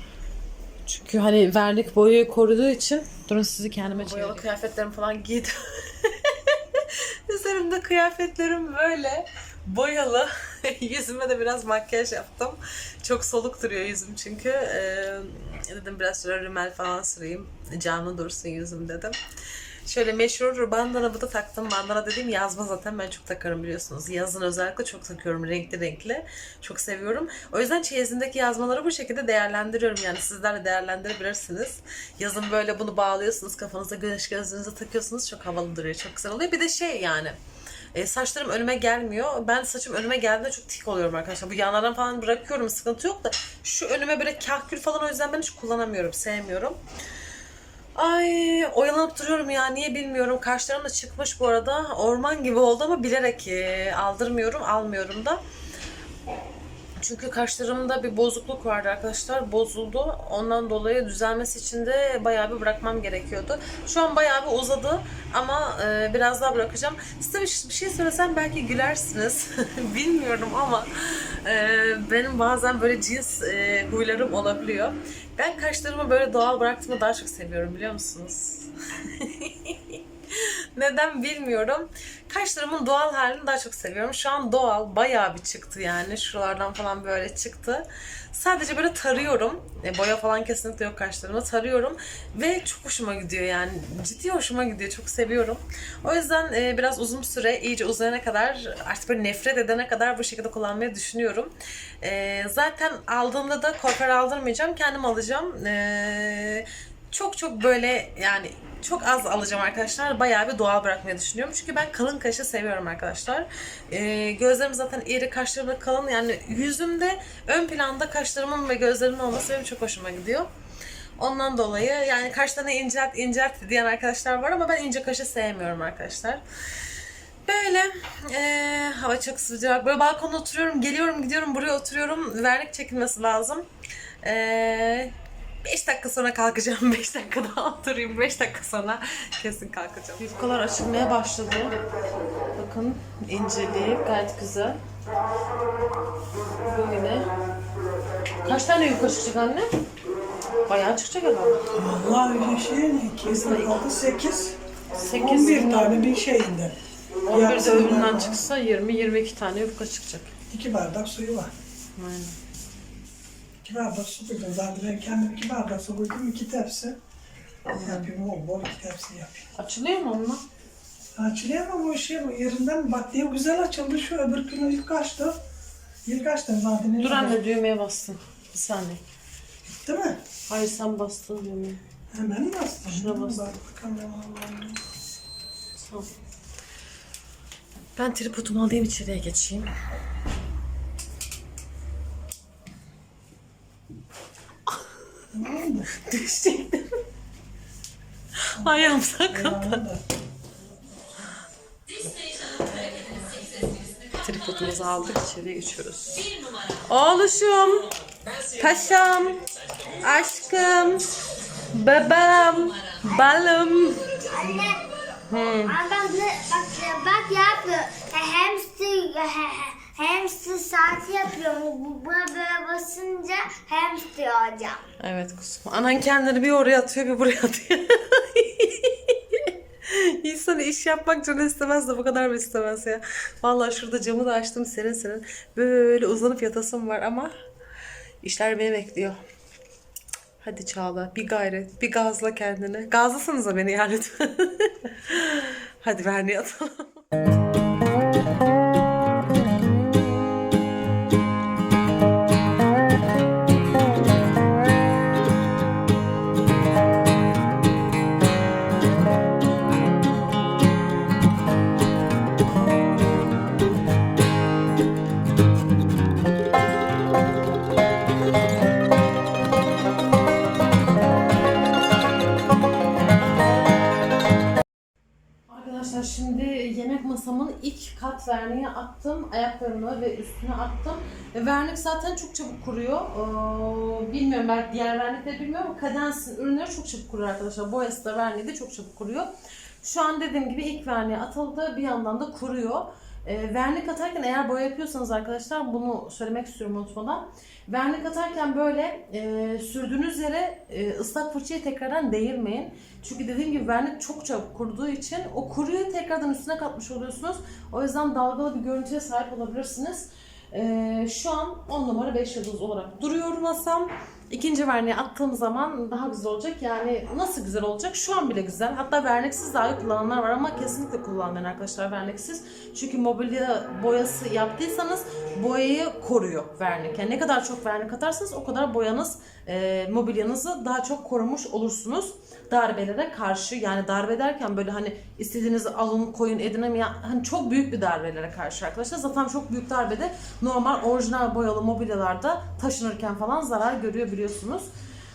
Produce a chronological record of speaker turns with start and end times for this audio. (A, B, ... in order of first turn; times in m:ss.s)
0:00.8-0:19.2 A
0:19.8-0:37.4 A
0:37.9-0:46.8 A
0:47.9-0:55.4 A
0:57.0-2:00.5 A
2:01.2-2:06.4 A
2:07.4-2:13.7 A
2:14.2-2:21.7 A
2:22.6-2:24.8 A
2:26.6-2:27.3 A
2:28.4-2:29.7 A
2:30.7-2:31.6 A
2:31.7-2:34.6 B
2:33.2-2:33.8 A
2:34.9-2:36.0 A
2:35.2-2:36.8 B
2:37.2-2:40.3 A
2:37.3-2:38.4 B
2:40.5-2:41.5 B
2:42.0-2:42.4 A
2:43.6-2:47.0 B
2:47.7-2:48.1 A
2:47.8-2:49.5 B
2:49.6-2:50.4 A
2:51.2-2:55.4 B
2:56.0-2:57.4 B
2:57.0-2:59.0 A
2:59.8-3:00.2 B
3:00.5-3:01.8 A
3:02.1-3:04.8 B
3:02.8-3:03.5 A
3:05.8-3:06.1 A
3:08.0-3:09.7 A
3:15.3-3:15.9 B
3:15.9-3:16.9 A
3:18.5-3:19.8 A
3:18.6-3:20.0 B
3:22.7-3:23.3 A
3:24.1-3:29.4 A
3:30.0-3:31.1 A
3:31.7-3:34.2 A
3:34.2-3:34.8 C
3:35.3-3:35.8 A
3:35.6-3:44.8 C
3:45.0-3:57.3 A
3:58.2-3:59.2 A
4:00.4-4:07.0 A
4:35.5-4:49.3 A
4:49.8-5:44.7 A